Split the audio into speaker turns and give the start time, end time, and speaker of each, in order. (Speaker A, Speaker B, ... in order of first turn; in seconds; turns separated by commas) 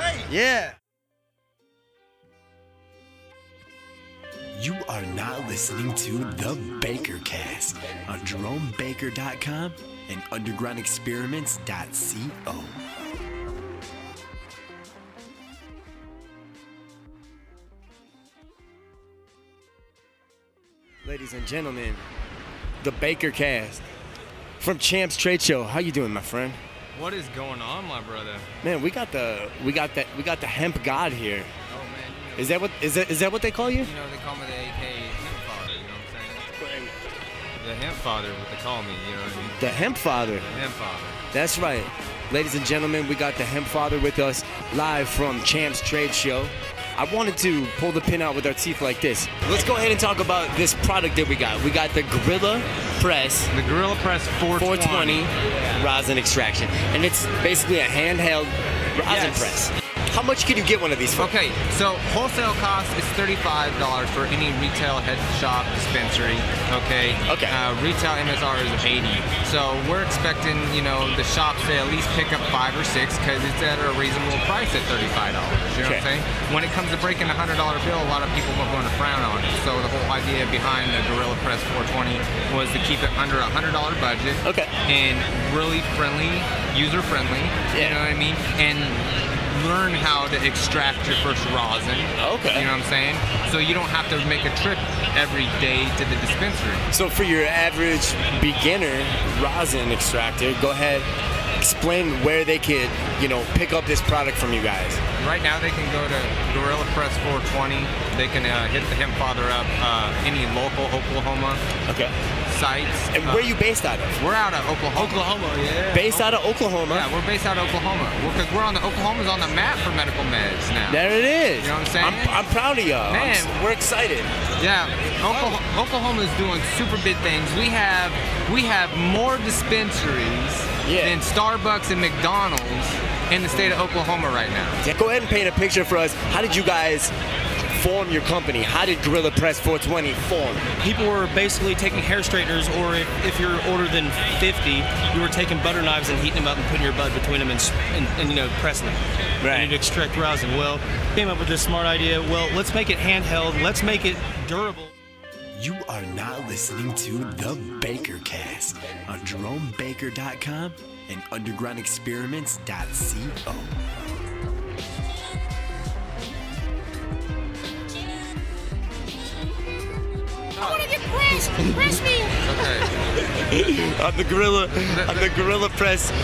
Speaker A: 0.3-0.8, Speaker B: 4.5-12.8, Speaker A: 21.0-22.0, Speaker A: 22.8-23.8, Speaker A: 24.6-26.6, Speaker C: 26.9-28.5, Speaker A: 28.6-31.5, Speaker C: 31.7-32.6, Speaker A: 32.4-33.9, Speaker C: 33.8-36.5, Speaker A: 36.6-36.9, Speaker C: 37.6-39.7, Speaker A: 39.5-40.5, Speaker C: 40.5-41.2, Speaker A: 41.3-53.5, Speaker C: 53.5-55.3, Speaker A: 54.6-61.3, Speaker D: 59.1-59.6, Speaker C: 61.2-96.9, Speaker A: 67.3-67.6, Speaker A: 84.5-84.7, Speaker A: 87.7-88.0, Speaker A: 92.2-92.7, Speaker A: 96.9-101.1, Speaker A: 101.6-105.0, Speaker C: 105.2-111.6, Speaker A: 111.9-112.1, Speaker C: 112.5-113.6, Speaker A: 113.1-114.2, Speaker C: 114.2-115.3, Speaker D: 115.0-116.2, Speaker A: 115.9-117.1, Speaker C: 116.9-122.4, Speaker A: 120.9-124.3, Speaker C: 123.1-123.6, Speaker C: 124.6-134.8, Speaker D: 125.3-125.6, Speaker A: 130.8-131.2, Speaker A: 134.8-137.1, Speaker A: 137.7-140.6, Speaker D: 140.8-154.9, Speaker A: 149.4-149.8, Speaker B: 155.6-163.8, Speaker E: 170.6-172.6, Speaker C: 172.4-172.9, Speaker A: 173.2-176.1, Speaker C: 174.9-175.4